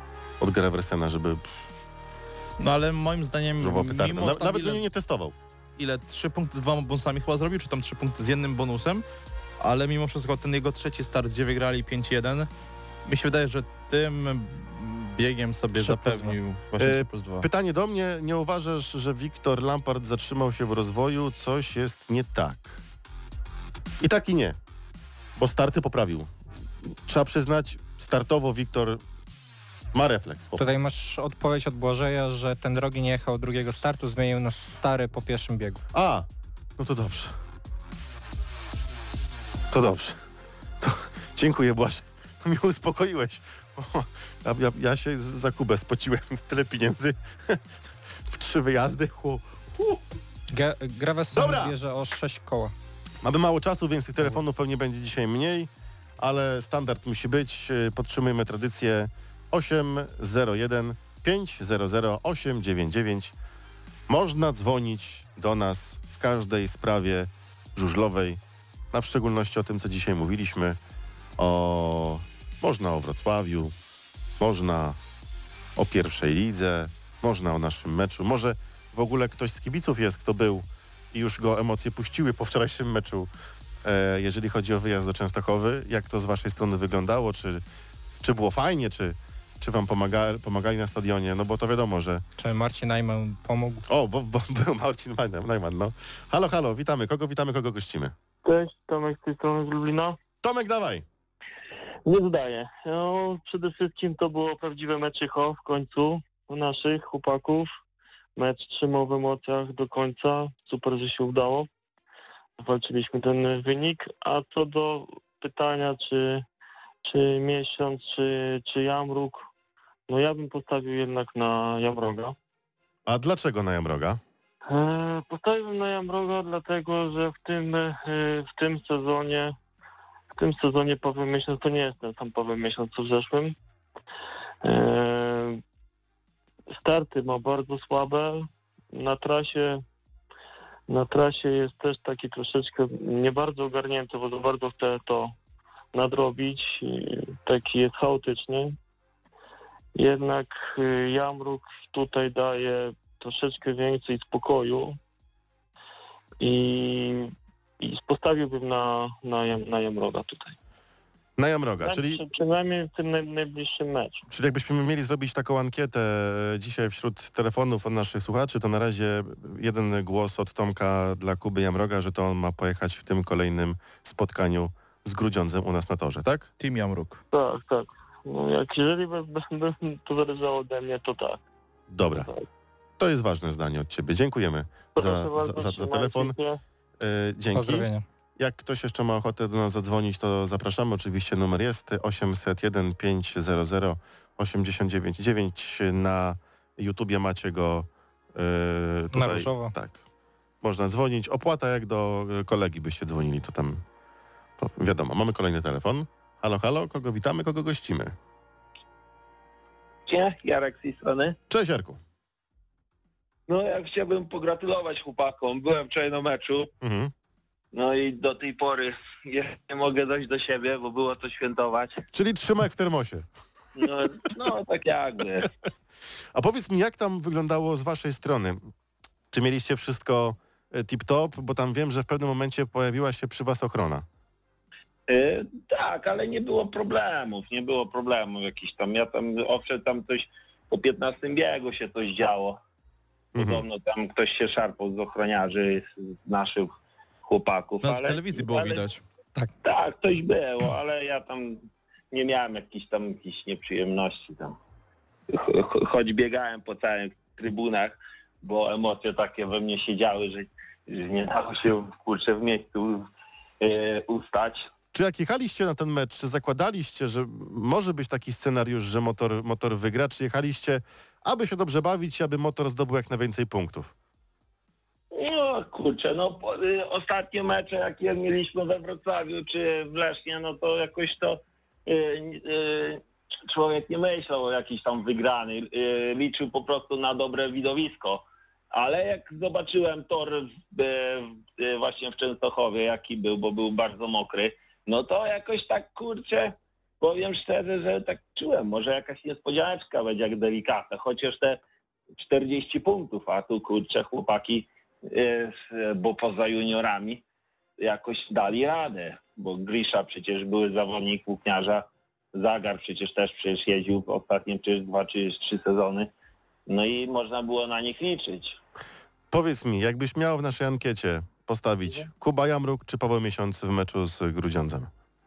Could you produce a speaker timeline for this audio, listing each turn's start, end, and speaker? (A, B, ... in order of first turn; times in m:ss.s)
0:00.4-0:01.5 A
0:02.6-0:04.8 B
0:03.6-0:05.4 A
0:05.8-0:09.0 B
0:09.6-0:12.5 B
0:13.1-0:17.5 B
0:15.8-0:16.4 C
0:16.8-0:22.8 A
0:24.0-0:24.6 A
0:25.4-0:26.3 A
0:26.8-0:29.0 A
0:29.9-0:30.6 A
0:30.6-0:35.8 C
0:35.9-0:36.3 A
0:36.8-0:37.3 A
0:39.7-0:40.2 A
0:40.8-0:47.6 A
0:48.2-0:50.0 A
0:50.5-0:52.7 C
0:51.3-0:51.8 A
0:53.2-1:03.3 A
1:04.1-1:08.4 A
1:08.9-1:10.8 A
1:11.4-1:13.8 A
1:14.4-1:15.0 A
1:15.8-1:23.3 A
1:23.8-1:27.6 A
1:28.2-1:32.2 A
1:32.4-1:33.8 C
1:33.9-1:38.1 A
1:38.4-1:40.2 D
1:40.4-1:41.0 A
1:42.1-1:47.7 D
1:48.4-1:51.7 D
1:52.6-1:56.4 D
1:57.0-1:59.5 D
2:00.1-2:02.4 D
2:03.1-2:04.2 A
2:04.7-2:09.6 D
2:10.3-2:13.6 D
2:14.6-2:15.6 D
2:16.7-2:19.8 D
2:20.9-2:25.3 D
2:25.9-2:28.8 D
2:30.0-2:35.0 D
2:36.4-2:40.6 D
2:41.4-2:42.2 A
2:41.8-2:44.2 D
2:44.3-2:56.5 A
2:56.6-2:57.2 B
2:57.3-3:01.4 D
3:01.9-3:02.3 A
3:02.2-3:02.4 D
3:03.0-3:06.4 A
3:05.0-3:06.6 D
3:07.0-3:20.0 A
3:07.5-3:08.0 C
3:19.1-3:19.8 C
3:20.6-3:23.8 A
3:24.6-3:28.2 A
3:30.1-3:31.4 E
3:31.5-3:32.0 A
3:33.5-3:36.7 E
3:36.8-3:37.1 A
3:37.7-3:42.0 E
3:42.1-3:43.3 A
3:43.8-3:45.5 E
3:46.4-3:48.7 A
3:49.3-3:54.0 A
3:55.1-4:02.6 E
4:03.4-4:08.9 E
4:03.4-4:03.6 A
4:07.8-4:09.0 B
4:09.6-4:14.6 E
4:15.3-4:23.1 E
4:23.6-4:24.7 E
4:24.9-4:33.9 A
4:35.1-5:01.6 E
5:02.2-5:07.2 E
5:07.8-5:16.1 E
5:16.7-5:18.6 E
5:19.3-5:24.9 A